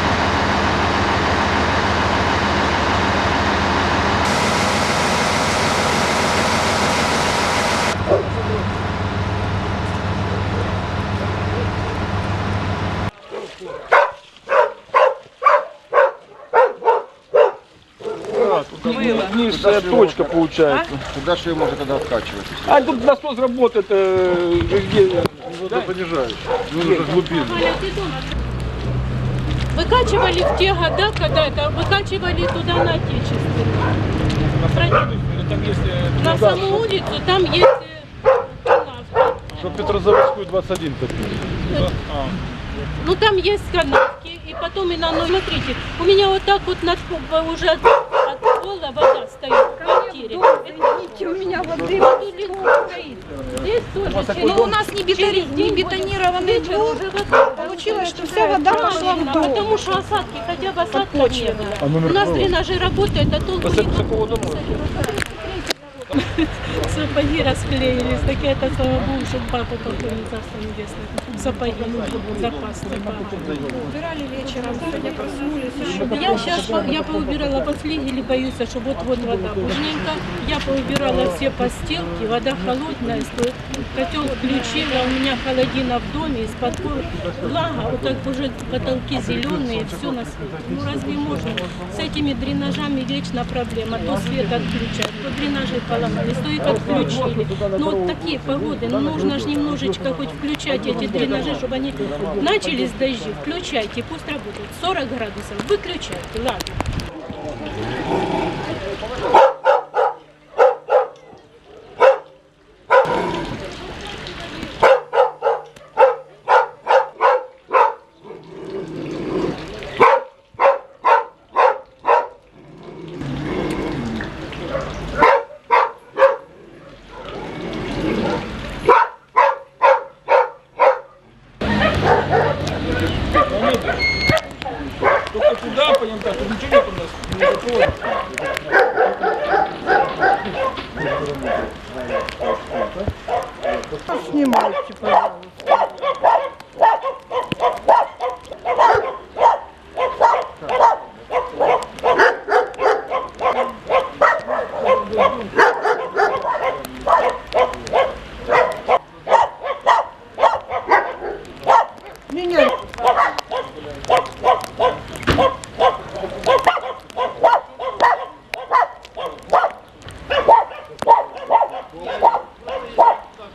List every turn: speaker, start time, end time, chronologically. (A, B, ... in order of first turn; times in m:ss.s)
0:18.3-0:22.6 A
0:18.4-0:21.0 B
0:18.9-0:19.2 C
0:22.6-0:26.0 B
0:25.6-0:27.6 D
0:26.6-0:27.3 B
0:27.3-0:28.4 E
0:29.7-0:34.0 E
0:34.4-0:36.9 B
0:34.7-0:35.1 E
0:36.2-0:39.6 E
0:39.5-0:39.8 B
0:39.6-0:41.4 D
0:41.8-0:42.4 B
0:43.0-0:52.7 E
0:49.8-0:53.4 C
0:53.5-1:13.6 E
0:54.1-0:54.6 B
0:54.2-1:02.0 C
1:01.8-1:02.5 D
1:03.6-1:04.8 B
1:04.9-1:05.5 C
1:11.7-1:12.5 B
1:13.2-1:13.8 B
1:13.5-1:16.8 C
1:15.8-1:46.8 E
1:16.8-1:17.5 D
1:19.2-1:20.0 D
1:21.2-1:21.5 D
1:29.2-1:31.8 D
1:36.6-1:40.2 D
1:41.9-1:42.8 D
2:13.5-2:14.0 B
2:15.3-2:18.0 B
2:24.2-2:25.4 C
2:42.3-2:42.8 C